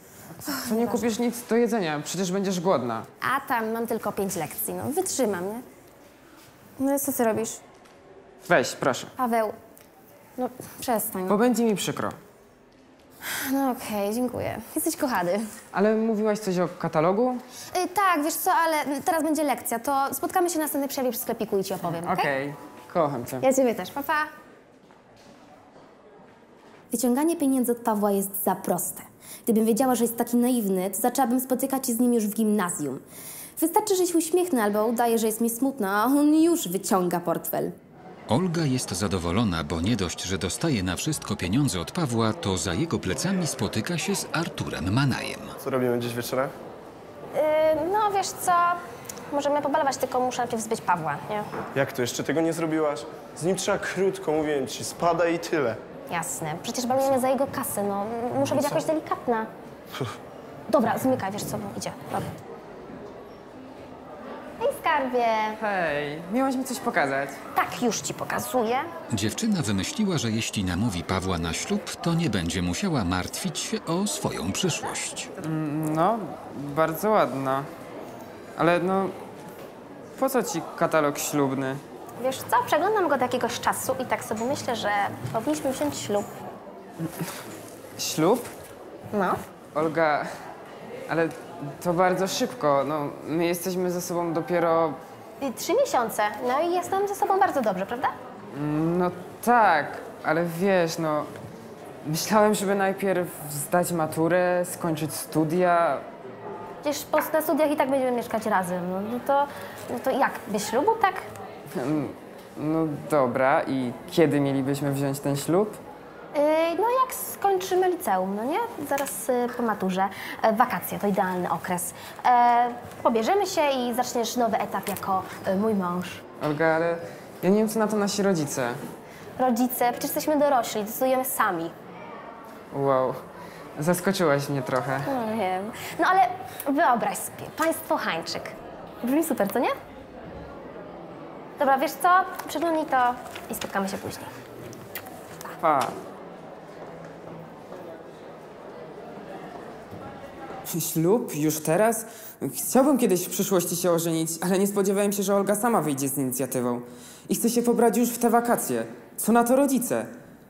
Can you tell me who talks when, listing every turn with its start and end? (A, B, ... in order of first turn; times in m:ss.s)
0:00.4-0:02.9 A
0:00.4-0:01.1 B
0:03.2-0:05.6 B
0:06.8-0:07.6 B
0:08.4-0:09.1 A
0:09.2-0:09.6 B
0:10.4-0:11.4 B
0:11.3-0:12.0 A
0:13.2-0:15.5 B
0:15.7-0:17.4 A
0:17.7-0:22.3 B
0:22.0-0:23.3 A
0:23.4-0:24.3 B
0:26.9-0:33.0 B
0:33.6-0:37.7 B
0:38.3-0:45.5 C
0:45.6-0:46.5 D
0:47.3-0:48.8 B
0:49.3-0:51.4 B
0:51.7-0:55.8 D
0:56.1-0:59.5 B
1:00.7-1:02.3 B
1:04.6-1:05.6 B
1:05.6-1:07.4 A
1:07.5-1:08.9 B
1:09.1-1:15.3 C
1:15.4-1:17.7 A
1:18.6-1:19.1 A
1:20.2-1:21.8 A
1:22.2-1:26.3 B
1:28.0-1:28.5 A
1:29.1-1:29.4 B
1:29.7-1:30.2 A
1:31.1-1:35.0 A
1:35.4-1:38.1 B
1:38.5-1:41.3 A
1:42.0-1:46.0 A
1:46.8-1:51.3 B
1:51.7-1:55.8 A
1:56.3-2:06.2 B
2:06.4-2:08.8 A
2:09.4-2:11.7 B
2:12.7-2:13.1 A
2:13.8-2:15.0 A
2:15.0-2:19.7 B
2:21.6-2:24.3 B
2:25.6-2:25.9 A
2:30.7-2:40.1 A